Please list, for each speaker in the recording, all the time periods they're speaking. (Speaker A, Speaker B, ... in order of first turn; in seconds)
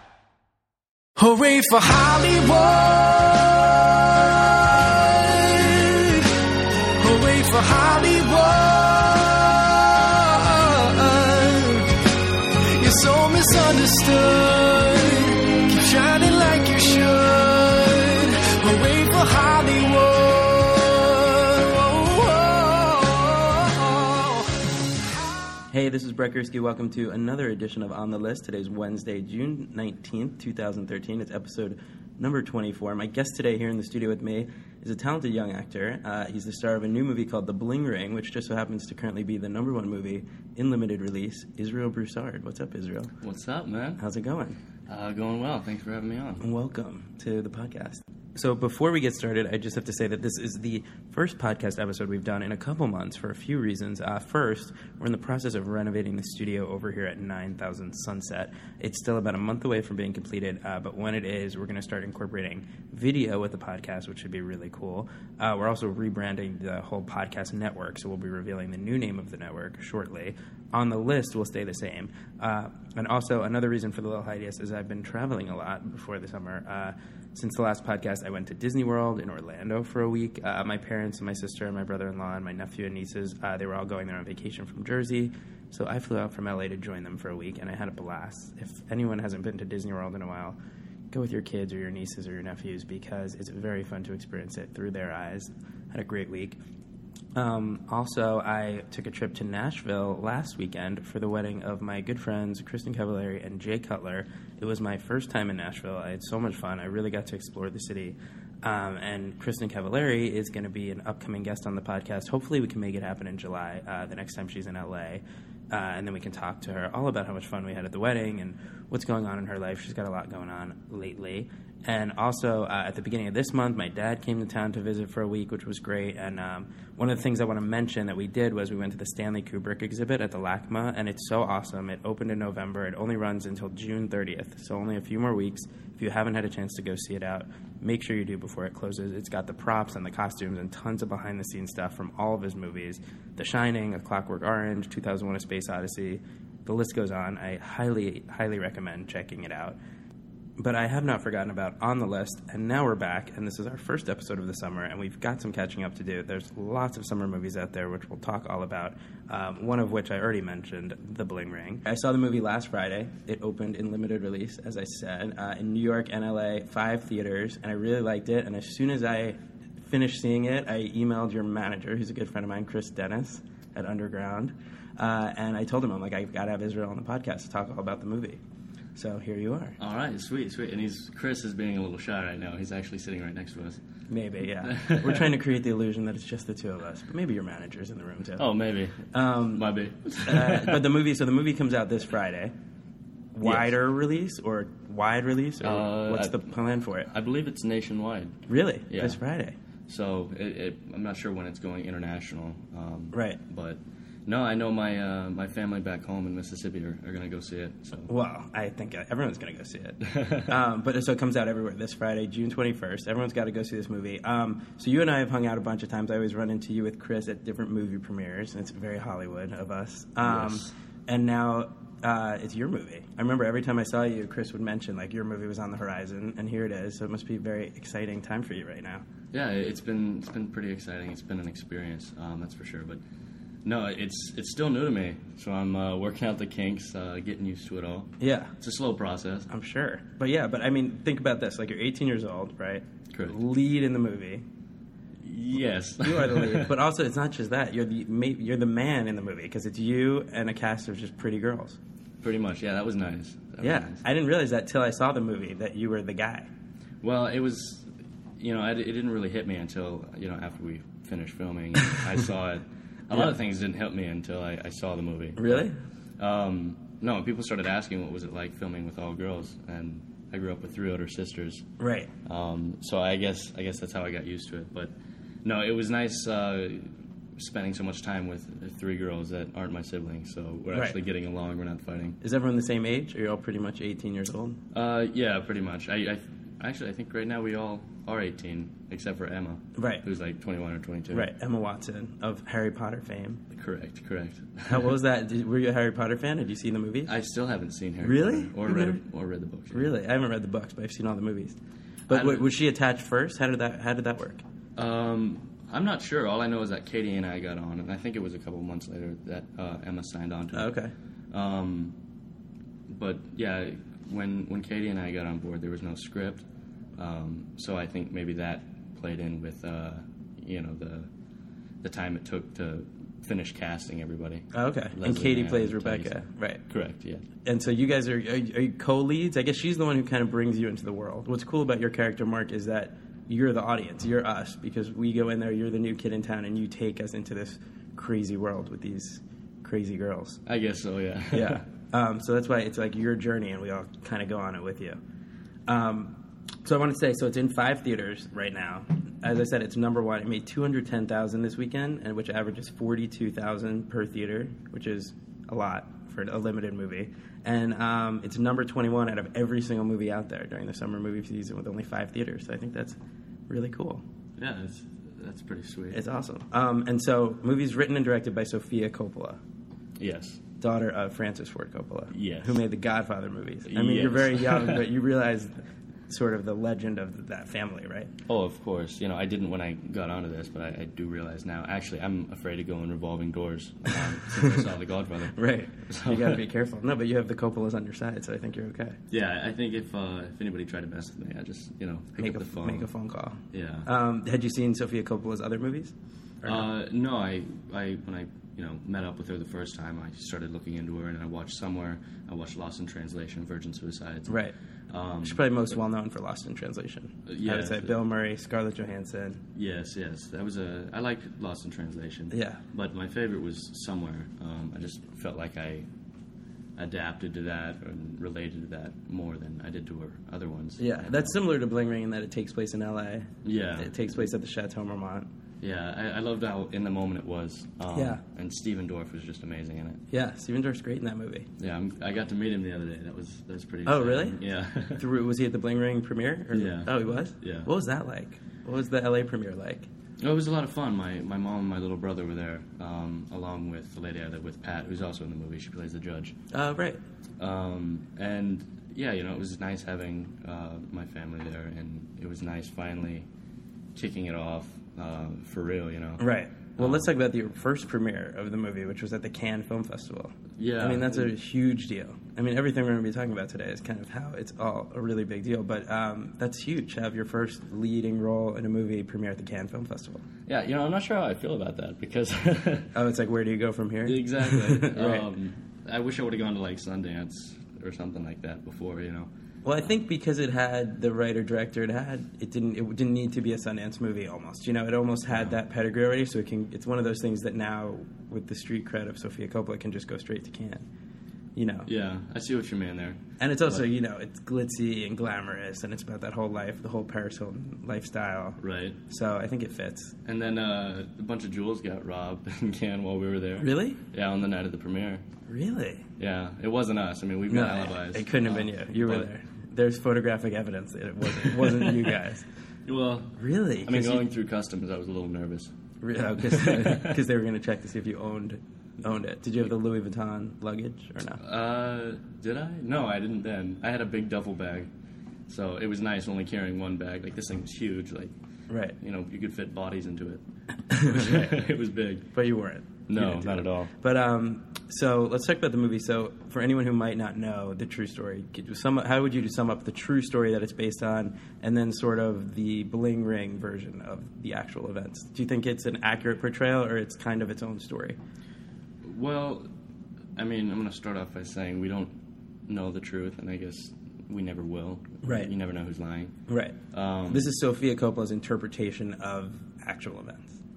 Speaker A: 1.2-6.3, 7.0-11.9, 12.5-24.4
Speaker B: 25.7-43.1, 44.0-44.6, 46.4-90.5, 91.1-96.6, 97.3-149.8, 150.6-178.4, 178.9-179.8, 184.1-188.4, 189.1-192.5, 193.3-197.1, 198.5-199.6, 203.1-203.4, 208.1-229.0, 238.2-238.5, 239.5-244.4, 246.0-251.8, 253.6-256.5, 265.4-265.7, 271.8-272.1, 282.2-284.6, 289.8-290.0, 291.1-293.4, 294.7-297.1, 298.0-299.0, 299.7-304.4, 310.5-310.9, 324.5-326.6, 327.4-340.4, 341.3-345.0, 345.7-363.0, 363.5-364.0, 365.9-369.4, 370.6-375.5, 376.1-378.1, 384.2-384.7, 385.3-389.0, 392.2-396.7, 404.3-404.5, 405.2-409.4, 412.3-412.6, 420.8-425.3, 427.9-428.2, 430.1-431.5, 433.9-434.4, 434.9-439.9, 446.5-447.0, 456.2-470.2, 472.9-475.3, 479.6-490.8, 491.6-491.9, 493.4-500.1, 503.6-504.0, 505.5-506.1, 507.5-512.5, 513.4-514.3, 516.0-521.4, 528.7-528.9, 530.9-531.6, 532.3-548.2, 555.2-555.5, 556.5-560.6
Speaker C: 43.2-44.0, 44.9-46.4, 179.8-183.8, 184.6-185.3, 188.4-190.8, 193.4-193.7, 195.6-196.4, 197.1-199.2, 199.9-208.1, 210.1-210.5, 220.2-220.7, 229.3-233.0, 233.6-239.5, 243.1-243.4, 245.2-246.7, 252.2-254.0, 257.0-271.7, 272.2-274.9, 275.4-282.2, 284.7-291.3, 293.5-294.9, 297.1-299.9, 302.1-302.4, 304.8-310.7, 311.3-311.9, 312.9-316.4, 316.9-321.1, 321.8-327.2, 340.4-341.6, 364.4-366.0, 370.0-370.4, 372.1-372.6, 373.6-374.8, 378.3-386.4, 389.1-392.9, 393.5-393.9, 396.4-404.4, 404.9-405.4, 407.3-408.0, 409.5-415.9, 416.8-421.3, 423.4-423.9, 425.6-430.0, 431.6-435.0, 436.5-437.7, 440.2-446.4, 447.4-453.3, 453.9-456.2, 456.8-457.1, 460.6-461.3, 470.4-472.9, 474.0-479.3, 491.9-493.8, 498.6-499.0, 500.2-505.2, 506.2-509.3, 511.2-512.1, 512.9-515.7, 516.4-517.2, 521.4-524.9, 525.5-528.3, 529.0-532.3, 533.1-533.9, 549.0-549.7, 550.4-556.4, 556.9-557.5